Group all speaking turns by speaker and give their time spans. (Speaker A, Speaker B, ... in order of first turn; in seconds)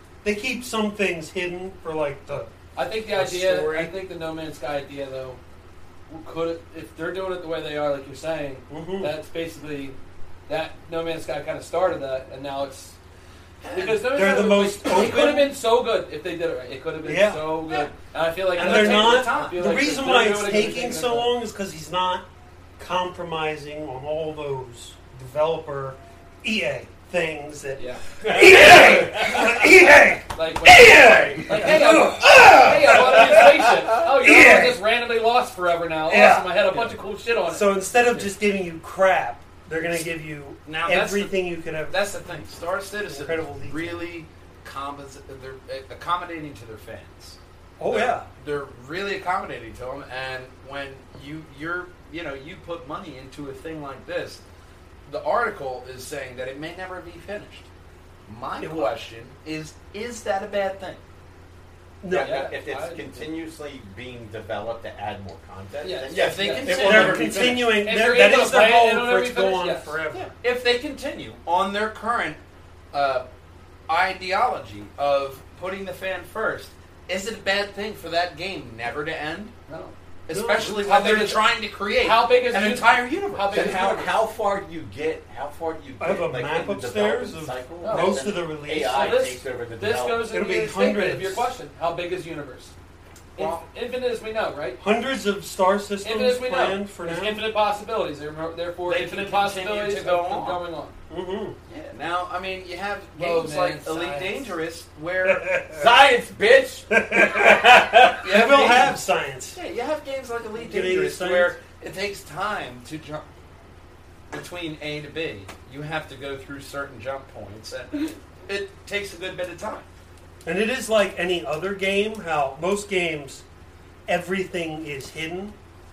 Speaker A: 0.2-2.5, 8.7-9.1, 14.1-15.5, 17.0-17.6, 18.6-22.2, 22.8-34.8, 36.1-37.0, 37.5-41.9, 43.1-44.0, 47.8-48.3, 58.6-58.9, 62.0-62.4, 66.8-70.3, 80.3-80.8, 86.0-89.2, 90.3-91.5, 94.8-97.4, 101.1-101.6, 105.3-105.8, 106.9-109.6, 110.6-111.5, 120.4-123.4, 124.0-125.5
Speaker B: 2.8-5.4, 6.1-12.9, 13.7-21.3, 27.8-28.0, 30.3-38.3, 62.1-63.0, 65.8-67.0, 67.7-69.9, 79.7-79.9, 80.6-84.2, 87.8-92.7, 93.3-94.8, 96.0-100.9, 103.2-104.5
Speaker C: 3.1-3.9, 28.3-29.4, 62.1-67.7, 83.5-90.3, 105.7-108.2
Speaker D: 13.6-14.2, 14.9-15.3, 18.5-19.7, 31.0-31.9, 40.6-41.4, 41.9-54.4, 55.1-57.7, 58.3-61.0, 66.1-67.6, 70.1-72.4, 72.9-73.2, 73.9-79.5, 80.3-83.8, 93.4-93.6, 98.9-100.6, 101.7-105.5, 108.2-109.0, 109.5-113.2, 114.3-119.9